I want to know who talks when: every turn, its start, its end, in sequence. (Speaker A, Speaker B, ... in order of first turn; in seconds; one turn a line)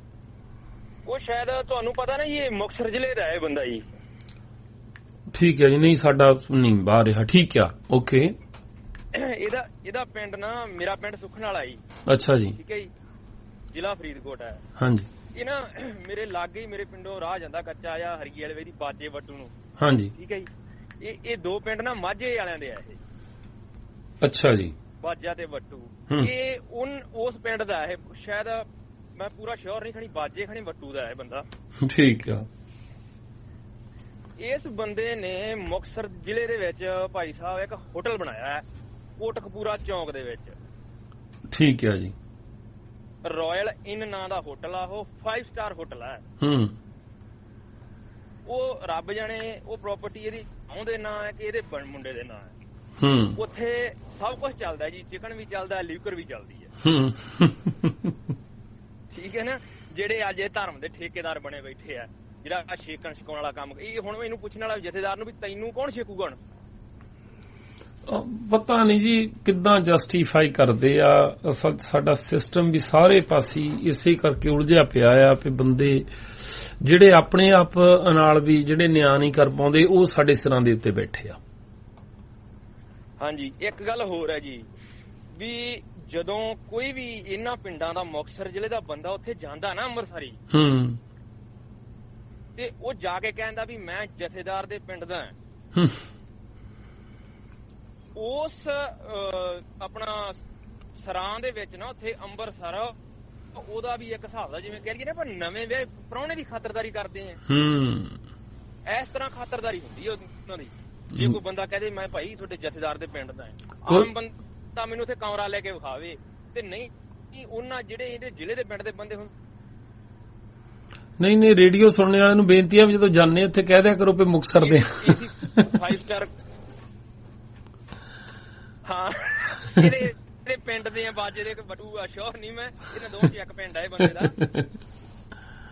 Speaker A: 1.1-3.9
Speaker B: 5.3-8.3
Speaker A: 9.1-11.8
Speaker B: 12.1-12.6
Speaker A: 12.6-12.9
Speaker A: 13.7-14.6
Speaker B: 14.8-15.1
Speaker A: 15.3-19.5
Speaker B: 19.8-20.1
Speaker A: 20.1-20.5
Speaker A: 21.0-23.0
Speaker B: 24.2-24.8
Speaker A: 25.0-31.5
Speaker B: 31.8-32.5
Speaker A: 34.4-38.6
Speaker A: 39.2-40.5
Speaker B: 41.5-42.1
Speaker A: 43.2-46.2
Speaker B: 46.4-46.8
Speaker A: 48.5-52.5
Speaker B: 53.0-53.4
Speaker A: 53.4-56.7
Speaker B: 56.8-58.1
Speaker A: 59.1-66.4
Speaker B: 68.1-81.4
Speaker A: 83.2-84.7
Speaker A: 85.3-90.4
Speaker B: 90.5-91.0
Speaker A: 92.6-95.3
Speaker B: 95.8-96.0
Speaker A: 98.2-100.4
Speaker A: 100.9-102.9
Speaker A: 103.5-107.4
Speaker B: 107.5-108.2
Speaker A: 108.9-119.3
Speaker B: 111.1-111.4
Speaker B: 121.2-125.7
Speaker A: 124.6-126.3
Speaker A: 128.9-134.4
Speaker B: 134.4-134.7